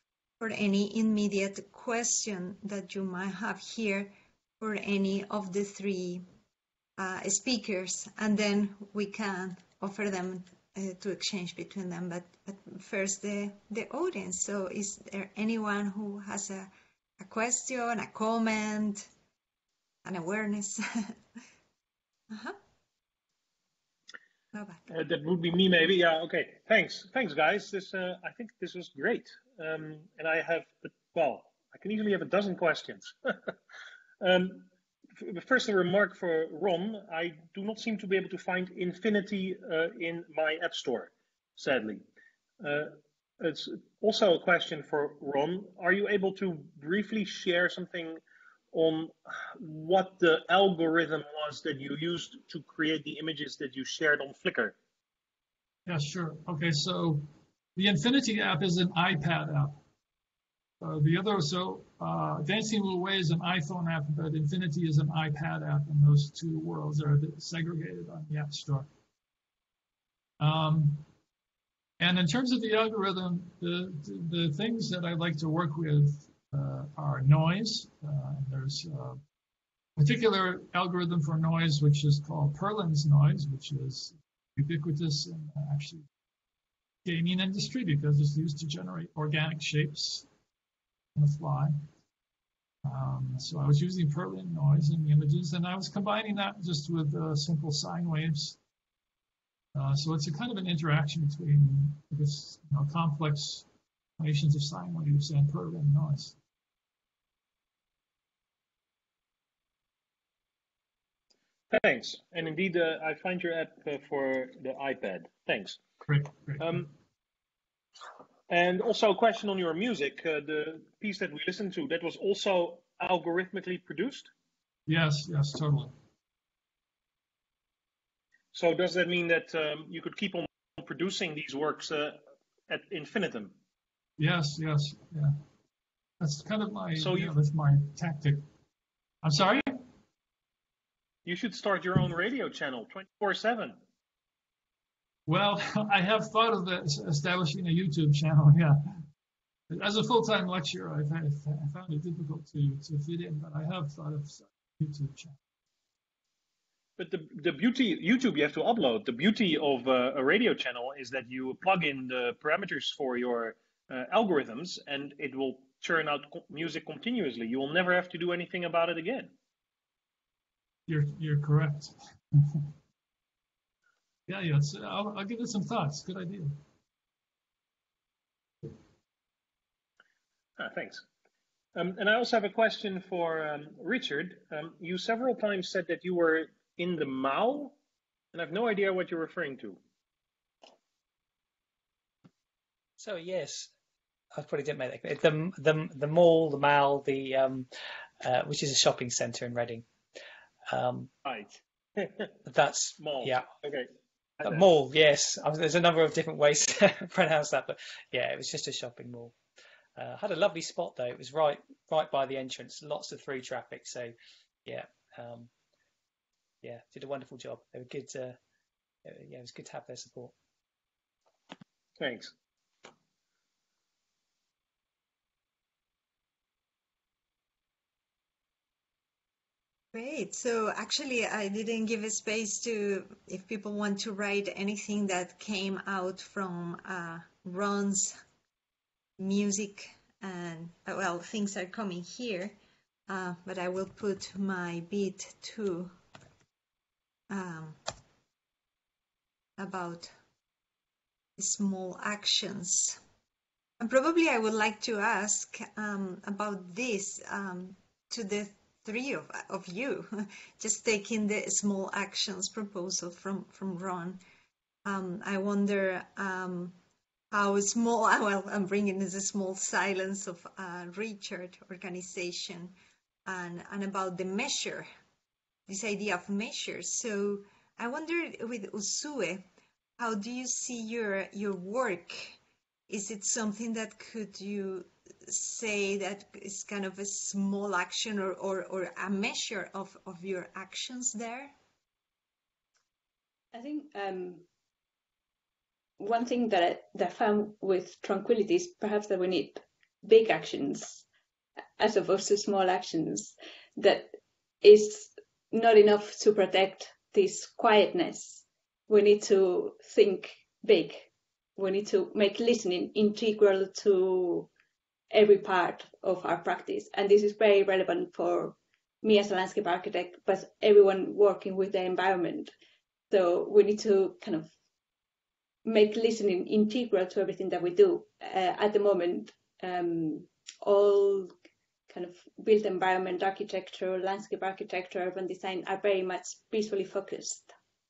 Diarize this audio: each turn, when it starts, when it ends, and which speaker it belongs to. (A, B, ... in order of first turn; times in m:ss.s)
0:00.4-0:06.2 A
0:07.0-0:19.1 A
0:20.0-0:21.2 A
0:22.3-0:22.6 A
0:24.5-0:24.8 A
0:24.9-0:33.5 B
0:34.2-0:42.0 B
0:42.6-0:48.2 B
0:48.7-0:54.8 B
0:55.8-0:59.8 C
1:00.8-1:08.9 C
1:10.4-1:11.0 C
1:12.0-1:19.2 C
1:20.0-1:26.1 C
1:27.0-1:30.3 C
1:31.1-1:31.8 C
1:32.8-1:38.6 C
1:39.7-1:43.6 C
1:44.2-1:46.3 C
1:51.7-1:55.8 B
1:56.1-1:56.8 C
1:56.6-1:56.9 B
1:58.5-2:04.3 B
2:04.9-2:05.9 C
2:08.5-2:13.5 B
2:14.2-2:15.4 C
2:16.2-2:18.4 C
2:17.0-2:17.3 B
2:19.2-2:19.8 C
2:21.2-2:23.8 B
2:25.3-2:29.0 C
2:29.7-2:35.4 C
2:37.0-2:49.3 B
2:50.9-2:52.6 C
2:54.3-2:56.6 C
3:00.6-3:01.0 B
3:01.7-3:07.7 B
3:08.3-3:09.8 B
3:13.0-3:13.7 D
3:14.3-3:17.7 D
3:18.2-3:19.8 D
3:20.7-3:21.1 D
3:21.2-3:22.3 B
3:22.4-3:23.5 D
3:23.0-3:23.9 B
3:24.4-3:29.3 D
3:30.0-3:34.1 D
3:34.6-3:35.5 D
3:36.6-3:38.4 D
3:39.0-3:40.3 D
3:42.0-3:42.3 B
3:49.9-3:58.2 A
3:59.2-4:02.6 A
4:03.1-4:05.9 A
4:07.3-4:07.8 A
4:09.6-4:10.1 A
4:11.4-4:13.0 A
4:13.8-4:24.2 A
4:24.8-4:26.8 A
4:27.3-4:32.7 A
4:33.2-4:34.9 A
4:35.7-4:39.4 A
4:40.0-4:42.4 A
4:42.9-4:51.5 A
4:53.5-4:54.4 E
4:56.0-5:01.0 E
5:01.8-5:14.5 E
5:15.1-5:22.5 E
5:23.1-5:24.5 E
5:25.6-5:31.3 E
5:31.9-5:37.5 E